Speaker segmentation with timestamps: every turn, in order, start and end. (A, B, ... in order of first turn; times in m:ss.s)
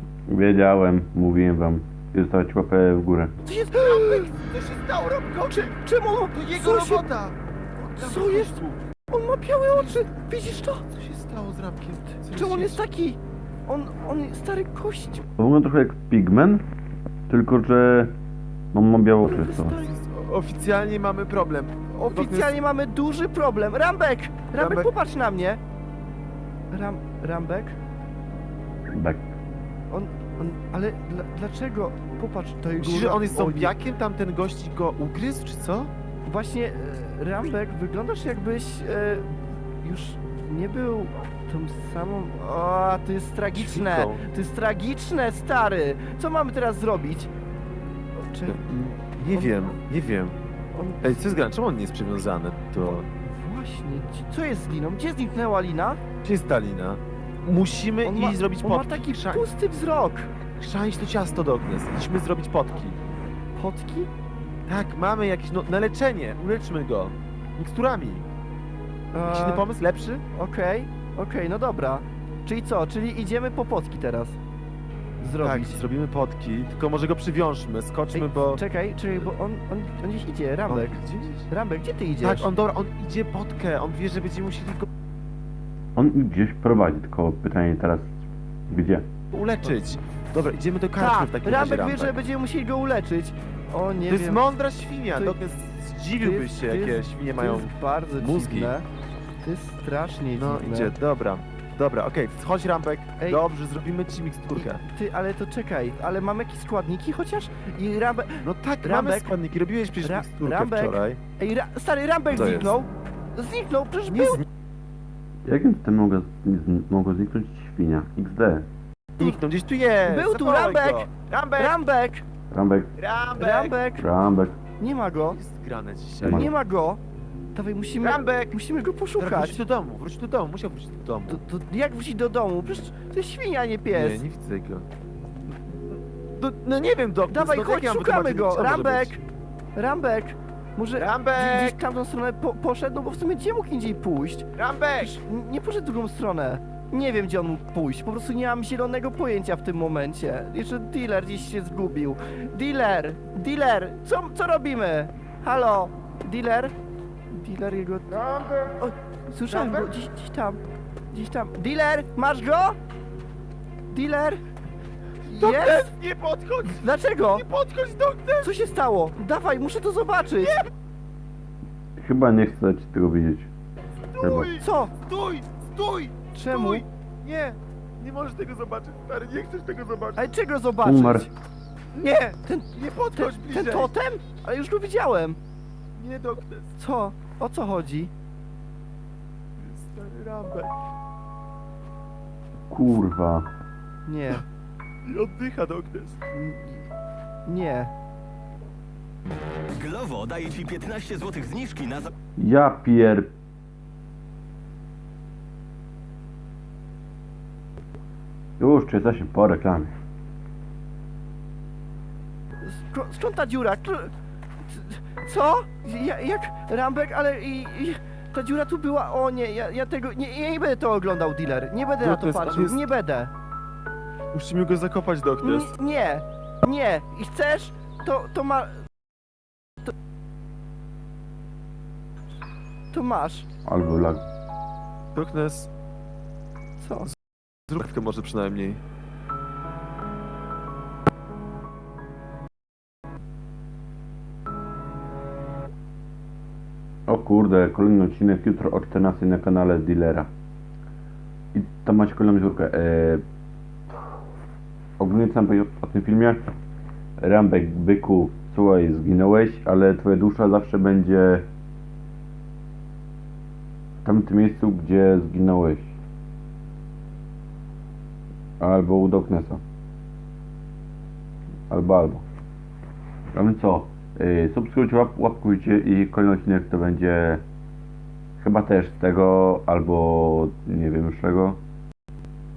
0:00.3-0:03.3 A
0:03.4-0:04.3 B
0:03.7-0:05.8 C
0:05.5-0:07.0 B
0:06.3-0:08.8 C
0:08.0-0:10.8 B
0:09.7-0:10.0 C
0:10.9-0:12.8 C
0:12.2-0:15.2 B
0:15.4-0:16.6 A
0:17.3-0:18.1 A
0:18.7-0:19.8 A
0:19.2-0:20.0 B
0:20.0-0:22.5 C
0:22.1-0:25.6 B
0:24.6-0:24.9 C
0:26.7-0:27.8 B
0:28.9-0:29.2 A
0:29.9-0:33.7 B
0:32.8-0:35.9 C
0:36.2-0:47.3 B
0:43.5-0:44.2 C
0:48.3-0:48.6 B
0:48.5-0:50.3 C
0:49.3-0:49.7 B
0:50.7-0:51.2 B
0:51.0-0:53.0 C
0:52.8-0:56.0 B
0:56.2-0:59.5 C
0:58.0-1:00.3 B
1:00.6-1:03.0 C
1:03.5-1:04.1 B
1:04.7-1:08.2 C
1:09.1-1:09.7 B
1:09.3-1:10.2 C
1:10.3-1:14.4 B
1:15.2-1:15.8 B
1:15.4-1:18.6 C
1:18.1-1:21.0 B
1:20.7-1:21.5 C
1:21.5-1:22.5 B
1:22.2-1:24.9 C
1:26.0-1:29.0 A
1:29.3-1:32.1 C
1:31.0-1:34.4 B
1:34.1-1:38.7 C
1:35.1-1:35.4 B
1:36.2-1:38.8 B
1:39.4-1:40.9 B
1:40.3-1:44.8 C
1:44.5-1:49.3 B
1:48.4-1:51.2 C
1:50.0-1:54.4 B
1:52.3-1:52.8 C
1:54.1-1:54.4 C
1:55.4-1:58.6 A
1:59.2-2:01.8 C
2:00.0-2:02.2 B
2:02.5-2:02.9 A
2:03.0-2:03.8 C
2:03.4-2:04.0 B
2:04.0-2:04.6 A
2:04.8-2:05.4 B
2:05.2-2:06.5 C
2:06.2-2:06.5 A
2:06.2-2:07.0 B
2:07.5-2:09.6 B
2:08.0-2:08.6 C
2:09.2-2:11.4 C
2:11.3-2:14.2 B
2:13.9-2:14.8 C
2:16.3-2:19.2 C
2:17.3-2:19.2 B
2:19.7-2:24.5 B
2:21.0-2:21.8 C
2:24.6-2:25.2 C
2:25.0-2:36.7 B
2:37.3-2:38.2 B
2:38.2-2:38.7 C
2:38.8-2:40.6 B
2:39.5-2:39.9 C
2:41.1-2:42.8 B
2:43.9-2:44.4 B
2:45.2-2:45.9 B
2:45.3-2:48.5 C
2:46.7-2:47.4 B
2:48.4-2:50.6 B
2:50.4-2:50.7 C
2:52.0-2:53.5 A
2:54.1-3:00.2 C
2:54.2-2:54.5 A
2:54.6-2:54.9 B
2:56.3-2:56.8 B
3:00.2-3:01.3 B
3:00.8-3:01.3 A
3:01.9-3:03.9 C
3:02.4-3:05.4 B
3:06.0-3:06.8 C
3:06.8-3:08.1 B
3:09.6-3:10.7 C
3:12.7-3:13.5 A
3:14.0-3:14.4 B
3:15.0-3:16.2 C
3:16.3-3:16.9 B
3:17.4-3:17.9 B
3:19.7-3:22.1 D
3:22.4-3:23.3 A
3:28.6-3:29.9 A
3:32.6-3:34.1 B
3:34.7-3:43.3 B
3:42.0-3:42.8 C
3:44.3-3:45.7 C
3:45.4-3:48.8 B
3:52.9-3:53.5 B
3:53.6-3:54.2 A
3:55.1-3:55.7 C
3:56.8-3:57.1 B
3:57.7-3:58.8 C
4:07.1-4:10.3 A
4:11.5-4:13.2 A
4:15.0-4:16.4 A
4:17.2-4:21.4 A
4:24.0-4:25.9 A
4:28.6-4:29.6 A
4:31.7-4:32.2 A
4:33.3-4:37.4 A
4:38.4-4:41.6 A